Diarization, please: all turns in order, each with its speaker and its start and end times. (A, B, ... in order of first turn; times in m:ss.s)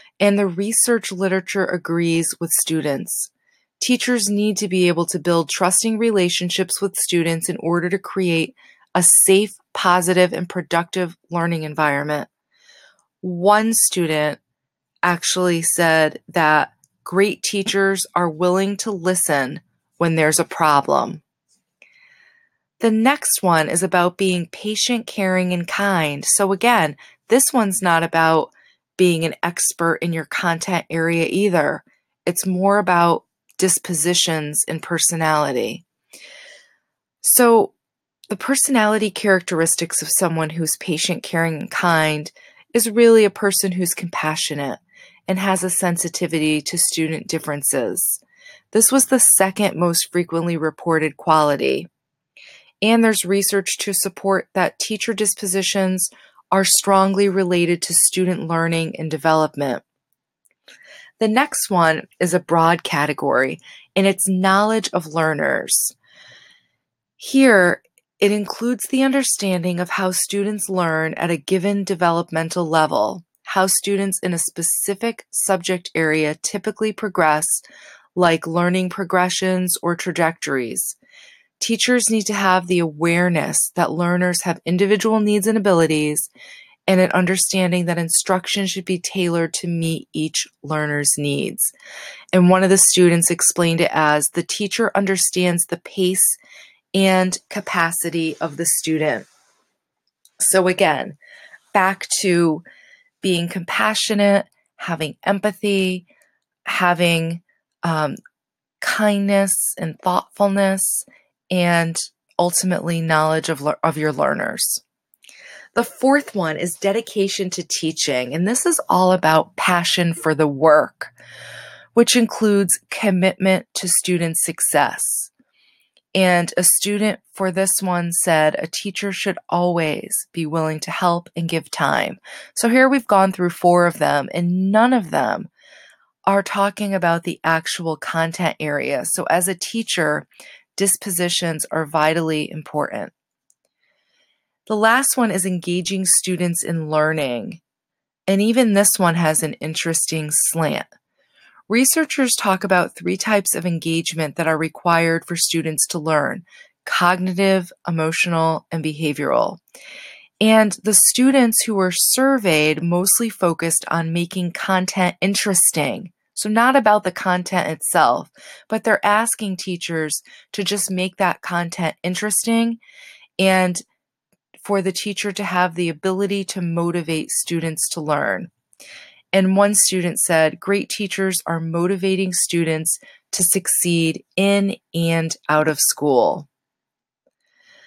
0:00.2-0:12.3 A
0:13.2-0:14.4 A
0:15.0-0:21.2 A
0:22.8-0:35.8 A
0:37.2-0:37.7 A
0:38.3-0:48.2 A
0:48.7-0:51.9 A
0:52.8-0:59.8 A
1:01.2-1:06.0 A
1:07.2-1:17.6 A
1:18.2-1:21.0 A
1:21.6-1:26.3 A
1:26.9-1:31.7 A
1:32.3-1:36.4 A
1:36.9-1:39.3 A
1:40.4-1:41.2 A
1:41.7-1:42.6 A
1:43.2-1:46.1 A
1:46.7-1:48.2 A
1:48.8-1:54.8 A
1:55.8-2:01.1 A
2:02.0-2:05.3 A
2:06.2-2:15.5 A
2:16.3-2:23.1 A
2:24.7-2:27.6 A
2:28.3-2:30.9 A
2:31.7-2:39.6 A
2:40.4-2:52.8 A
2:53.4-2:53.8 A
2:54.6-2:58.5 A
2:59.3-3:06.5 A